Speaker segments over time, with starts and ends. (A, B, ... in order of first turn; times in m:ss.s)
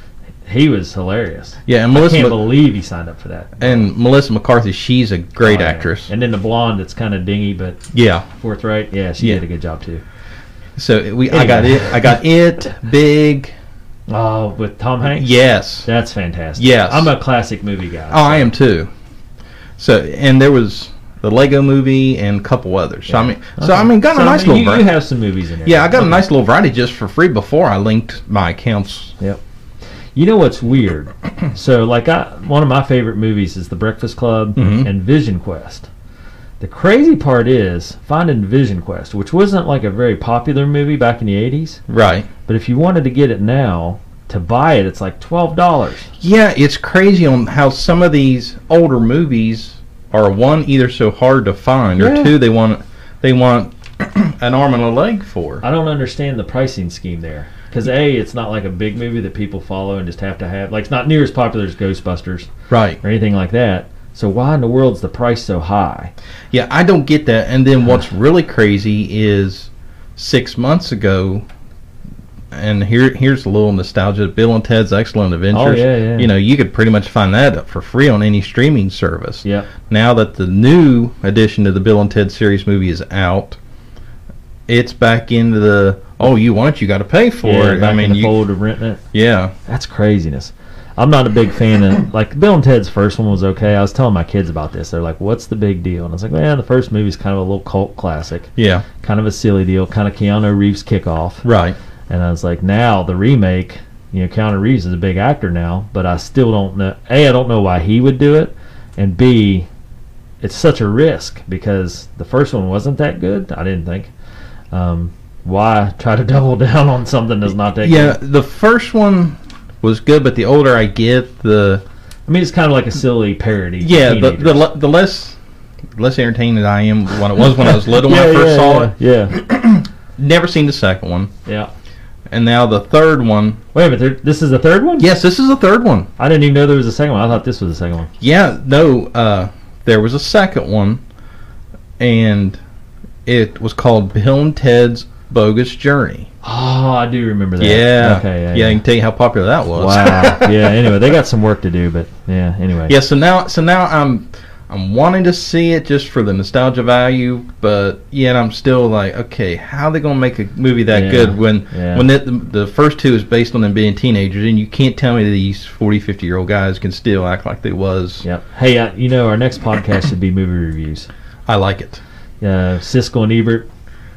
0:00.4-0:03.8 A
0:01.7-0:02.4 B
0:03.6-0:06.1 B
0:05.4-0:07.8 A
0:07.9-0:08.3 B
0:08.4-0:10.0 A
0:10.8-0:13.5 B
0:11.3-0:12.2 A
0:14.1-0:15.3 A
0:15.1-0:15.9 B
0:15.8-0:18.5 A
0:16.6-0:17.1 B
0:18.1-0:18.9 B
0:19.8-0:24.9 B
0:23.1-0:26.2 A
0:25.6-0:29.1 B
0:30.2-0:35.9 A
0:34.6-0:34.9 B
0:36.6-0:41.8 A
0:41.9-0:42.3 B
0:42.5-0:46.1 A
0:46.2-0:55.6 B
0:52.0-0:52.3 A
0:55.6-1:06.1 A
1:02.7-1:03.0 B
1:06.5-1:11.4 B
1:12.5-1:23.6 B
1:15.5-1:16.3 A
1:19.4-1:19.7 A
1:24.7-1:28.4 B
1:27.4-1:29.0 A
1:29.1-1:29.5 B
1:29.7-1:41.5 A
1:38.6-1:38.9 B
1:41.4-1:41.8 B
1:42.1-1:49.7 A
1:50.4-1:54.1 A
1:54.7-1:58.2 A
1:57.8-2:01.8 B
2:02.3-2:04.6 A
2:03.8-2:05.4 B
2:06.0-2:11.3 B
2:07.4-2:09.4 A
2:12.3-2:13.6 B
2:13.7-2:15.1 A
2:15.0-2:16.1 B
2:16.2-2:18.1 A
2:18.2-2:21.0 B
2:22.0-2:22.6 B
2:23.3-2:26.3 B
2:26.4-2:28.8 A
2:27.6-2:30.6 B
2:29.8-2:33.0 A
2:32.9-2:48.2 B
2:40.9-2:42.1 A
2:48.2-2:51.1 A
2:51.5-2:52.0 B
2:52.4-2:53.7 A